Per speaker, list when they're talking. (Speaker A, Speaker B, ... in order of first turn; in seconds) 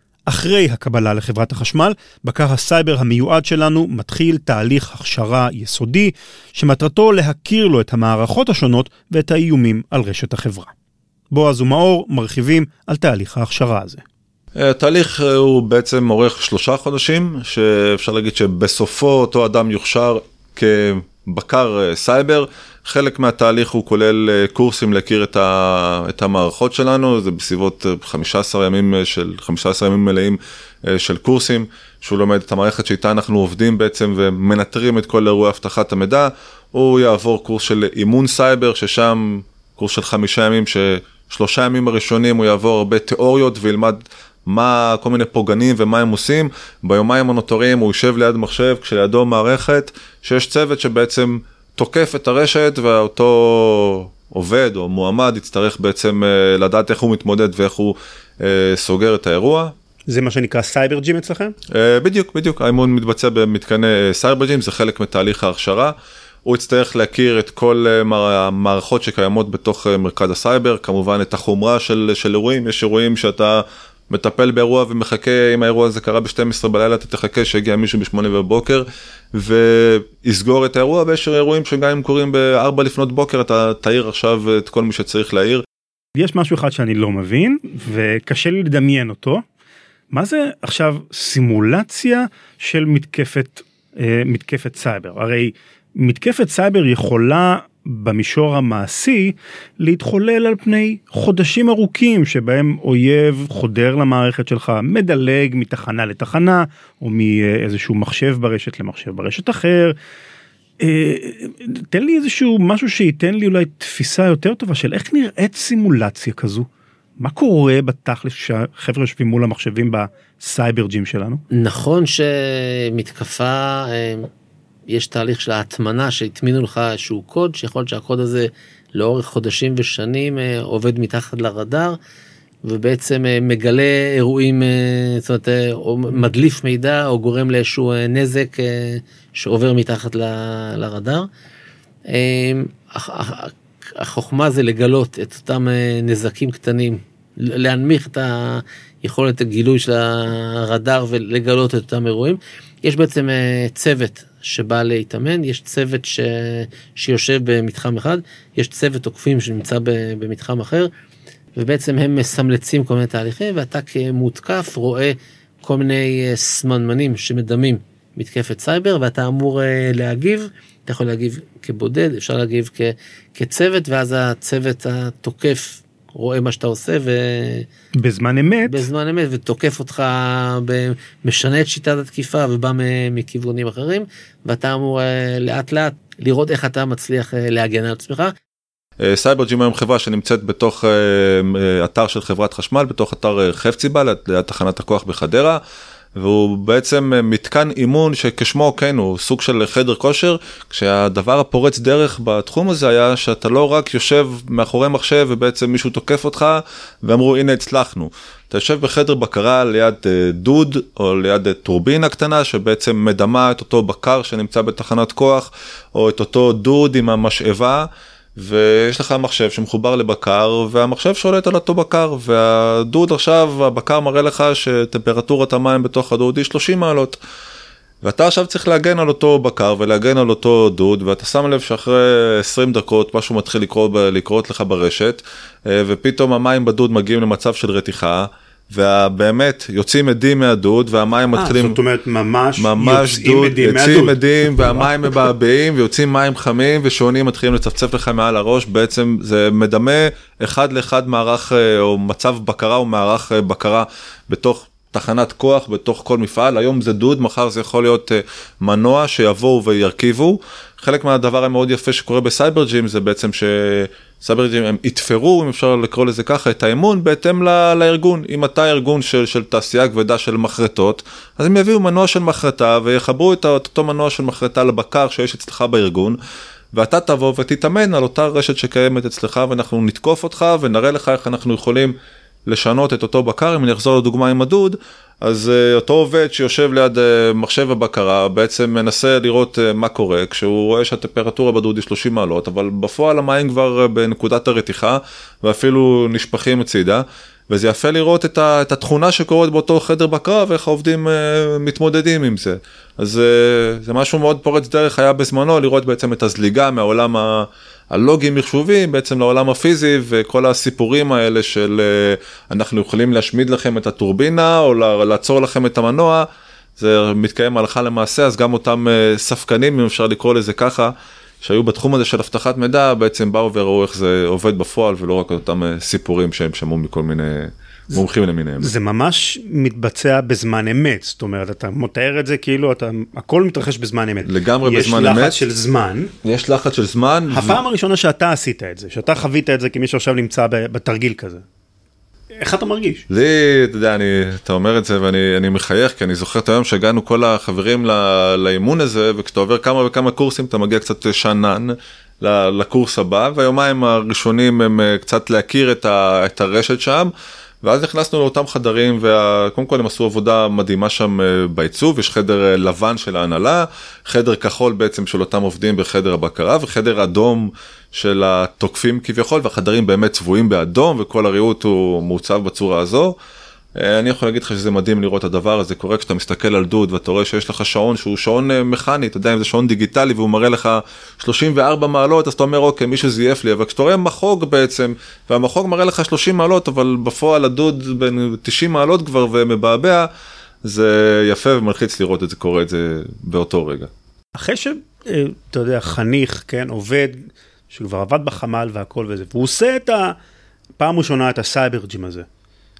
Speaker A: 0.3-10.7, 11.3-14.0, 60.1-61.5, 86.2-89.4, 90.1-93.6, 94.3-109.9, 110.8-116.6, 117.2-121.4, 178.0-178.8, 241.3-245.1, 328.6-336.1, 337.3-341.4, 342.4-343.0, 394.3-400.1, 400.8-402.3
Speaker B: 14.6-59.7, 61.7-65.9, 66.4-85.6, 189.0-195.6, 196.2-227.2, 228.0-241.8, 242.6-276.2, 276.7-281.9, 282.5-316.2, 316.8-328.7, 334.2-335.4, 336.2-337.6, 343.1-357.1, 357.6-373.1, 373.8-390.1, 390.6-393.9
Speaker C: 121.5-124.3, 124.9-132.0, 132.6-141.3, 142.1-160.9, 161.6-177.7, 178.7-188.3